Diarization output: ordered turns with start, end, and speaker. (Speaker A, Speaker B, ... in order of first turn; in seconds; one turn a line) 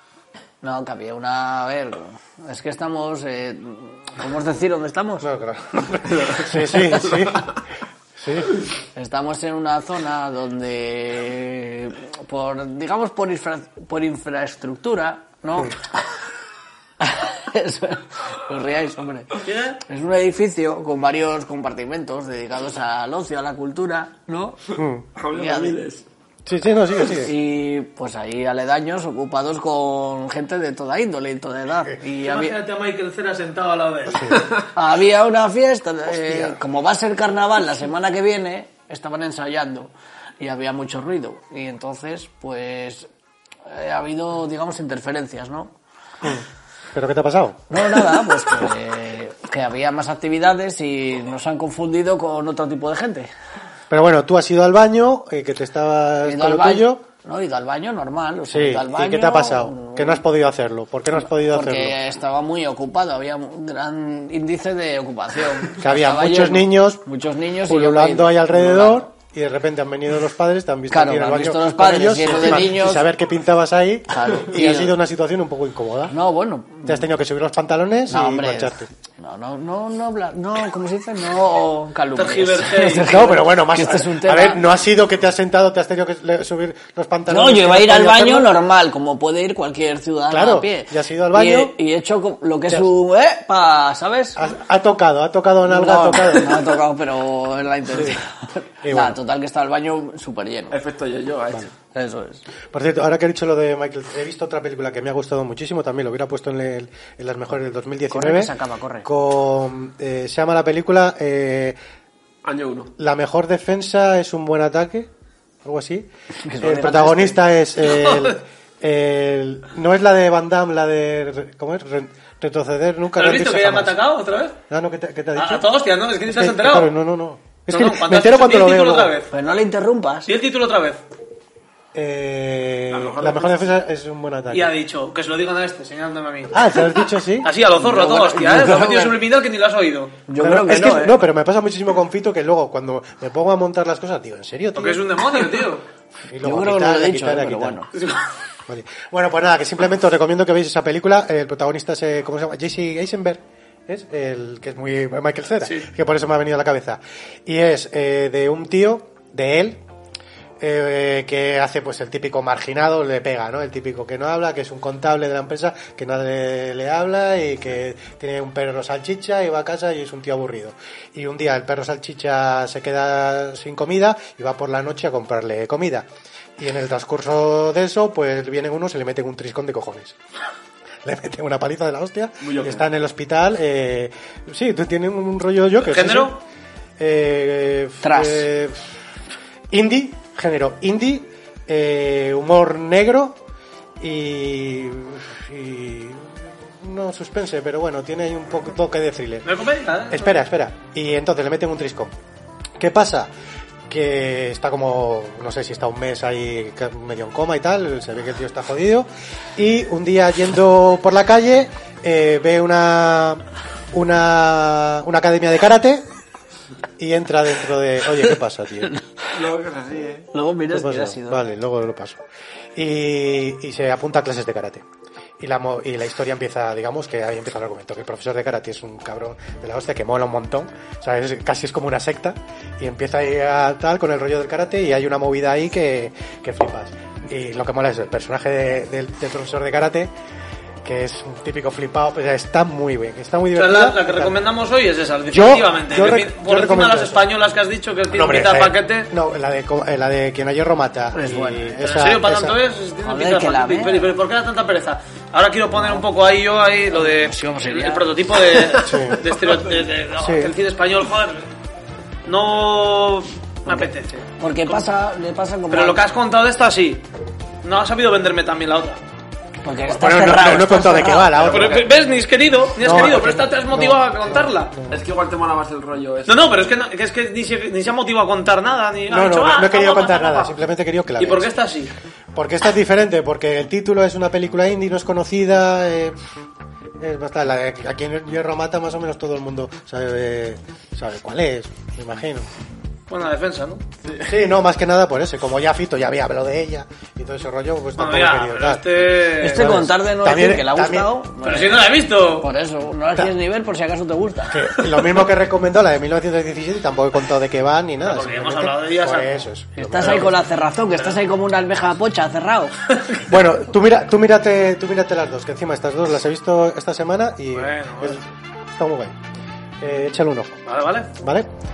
Speaker A: 0.6-5.3
Speaker B: 5.2-7.5
Speaker C: 6.1-6.5
Speaker B: 8.2-8.5
Speaker A: 8.9-15.9
Speaker A: 17.0-24.7
Speaker D: 19.4-19.8
Speaker B: 24.8-25.1
Speaker C: 25.1-26.0
Speaker A: 25.3-25.8
Speaker B: 26.4-27.3
Speaker A: 27.2-32.6
Speaker D: 32.2-34.4
Speaker B: 34.1-34.4
Speaker A: 34.7-43.1
Speaker B: 36.2-36.6
Speaker A: 43.6-45.7
Speaker B: 46.9-48.2
Speaker A: 47.7-53.3
Speaker B: 53.9-57.0
Speaker A: 56.2-60.2
Speaker B: 58.5-62.0
Speaker A: 61.3-69.1
Speaker B: 65.7-67.0
Speaker B: 67.7-76.1
Speaker A: 70.9-73.1
Speaker A: 74.1-74.9
Speaker A: 76.1-77.1
Speaker B: 76.8-78.9
Speaker A: 78.1-84.6
Speaker D: 82.2-83.2
Speaker B: 83.0-88.5
Speaker A: 87.3-94.4
Speaker B: 90.3-91.7
Speaker B: 94.3-96.7
Speaker A: 95.6-100.8
Speaker B: 97.9-98.2
Speaker B: 98.8-99.2
Speaker C: 100.7-101.7
Speaker A: 101.9-102.4
Speaker B: 102.7-111.8
Speaker A: 108.1-109.1
Speaker C: 112.4-112.9
Speaker B: 113.0-115.1
Speaker B: 115.6-116.1
Speaker A: 116.4-117.4
Speaker B: 116.6-124.0
Speaker D: 117.8-118.4
Speaker D: 123.1-124.6
Speaker B: 124.7-125.6
Speaker D: 125.3-126.9
Speaker B: 126.3-129.1
Speaker D: 127.7-129.3
Speaker A: 129.3-130.3
Speaker D: 130.3-131.0
Speaker B: 131.9-134.7
Speaker C: 132.9-133.7
Speaker D: 134.5-136.6
Speaker B: 136.5-137.5
Speaker D: 137.4-140.2
Speaker A: 137.7-139.2
Speaker A: 140.3-141.2
Speaker B: 140.4-145.2
Speaker D: 144.8-145.8
Speaker B: 146.2-147.8
Speaker A: 146.4-147.9
Speaker D: 147.9-148.2
Speaker B: 148.7-159.8
Speaker B: 160.6-180.2
Speaker B: 181.0-186.4
Speaker C: 182.4-182.8
Speaker D: 185.8-186.4
Speaker B: 187.0-188.9
Speaker A: 188.0-188.5
Speaker B: 189.7-193.4
Speaker B: 194.0-199.5
Speaker D: 199.4-200.4
Speaker B: 200.1-202.1
Speaker B: 202.8-203.3
Speaker B: 203.9-216.0
Speaker B: 217.0-218.9
Speaker C: 219.3-220.3
Speaker A: 220.3-221.4
Speaker B: 220.7-222.2
Speaker B: 222.7-224.8
Speaker B: 225.4-240.1
Speaker B: 240.8-244.4
Speaker D: 243.5-249.1
Speaker B: 245.3-247.2
Speaker B: 248.1-252.6
Speaker A: 251.1-251.7
Speaker D: 251.8-261.5
Speaker A: 253.0-254.1
Speaker A: 255.8-256.0
Speaker A: 256.9-258.6
Speaker B: 258.8-259.3
Speaker B: 260.2-260.5
Speaker D: 262.2-264.8
Speaker A: 264.4-266.0
Speaker D: 265.7-267.0
Speaker D: 267.6-269.0
Speaker A: 269.6-271.5
Speaker B: 269.8-271.9
Speaker D: 271.4-274.7
Speaker B: 272.8-275.0
Speaker C: 274.9-276.6
Speaker D: 276.3-280.5
Speaker B: 279.1-281.5
Speaker D: 281.2-281.9
Speaker B: 282.3-286.1
Speaker B: 287.0-292.5
Speaker D: 293.1-293.8
Speaker B: 294.2-298.8
Speaker D: 298.0-299.8
Speaker A: 299.4-304.6
Speaker B: 299.4-301.1
Speaker D: 301.4-302.5
Speaker B: 304.5-310.3
Speaker D: 304.8-305.1
Speaker D: 308.0-309.4
Speaker A: 309.8-312.7
Speaker D: 310.0-310.3
Speaker B: 313.3-319.1
Speaker D: 317.5-318.2
Speaker B: 319.8-320.6
Speaker D: 320.6-321.1
Speaker B: 321.2-321.5